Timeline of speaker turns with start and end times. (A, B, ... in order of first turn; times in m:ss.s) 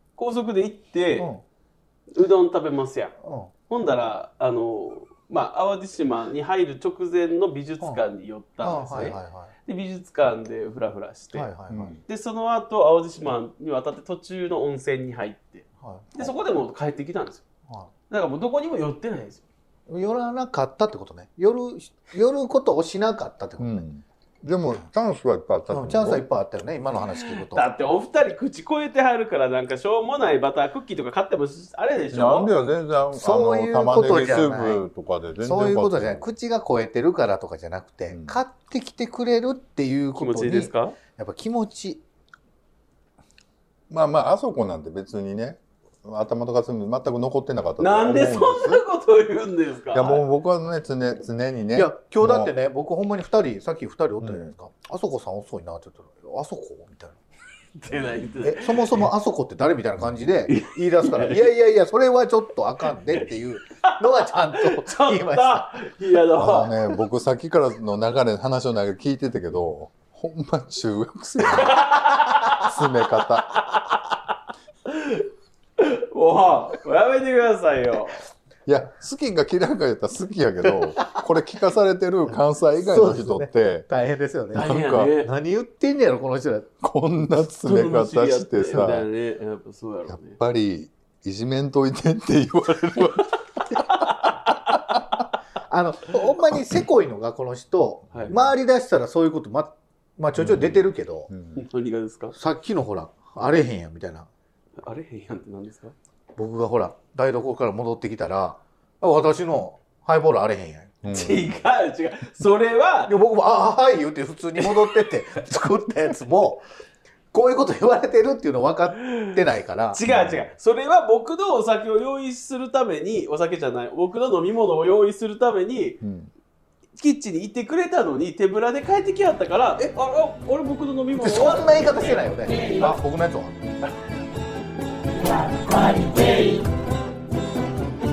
0:00.2-0:01.3 A
0:01.2-0:01.4 B
0:02.1-0:03.1 A
0:03.2-0:03.5 B
0:03.7-0:11.5 A
0:08.6-0:09.5 B
0:11.3-0:12.0 B
0:11.7-0:12.0 C
0:12.1-0:17.4 A
0:15.8-0:16.2 B
0:18.1-0:19.4 A
0:19.9-0:23.8 B
0:23.6-0:26.2 C
0:25.7-0:27.6 B
0:27.2-0:32.5 A
0:32.1-0:36.3 C
0:33.1-0:34.9 B
0:35.4-0:42.0 B
0:38.1-0:38.4 C
0:40.2-0:41.0 A
0:43.9-0:48.8 C
0:47.8-0:50.2 A
0:49.9-0:52.5 C
0:51.7-0:57.2 B
0:54.2-0:54.5 C
0:57.8-0:59.0 A
0:58.4-1:05.8 B
1:00.5-1:01.5 A
1:02.8-1:03.2 A
1:04.1-1:07.0 A
1:06.3-1:11.8 C
1:11.6-1:12.6 A
1:12.5-1:13.6 C
1:13.6-1:13.9 A
1:14.9-1:15.2 A
1:15.8-1:18.2 A
1:18.6-1:23.8 C
1:20.7-1:21.1 B
1:22.2-1:26.7 B
1:24.5-1:25.2 C
1:24.5-1:25.3 A
1:26.8-1:29.1 C
1:27.6-1:30.4 A
1:30.1-1:35.2 C
1:33.7-1:34.3 A
1:35.7-1:41.3 B
1:38.1-1:38.5 C
1:38.1-1:38.4 A
1:40.3-1:41.6 C
1:41.6-1:42.3 A
1:42.3-1:44.3 B
1:44.8-1:45.9 A
1:46.4-1:51.0 B
1:51.0-1:51.7 C
1:51.1-1:53.1 A
1:53.1-1:56.6 B
1:54.6-1:54.9 A
1:57.3-2:00.0 B
1:59.9-2:06.0 A
2:00.1-2:00.5 C
2:06.0-2:06.3 C
2:07.0-2:13.0 A
2:11.1-2:13.6 B
2:15.4-2:16.6 A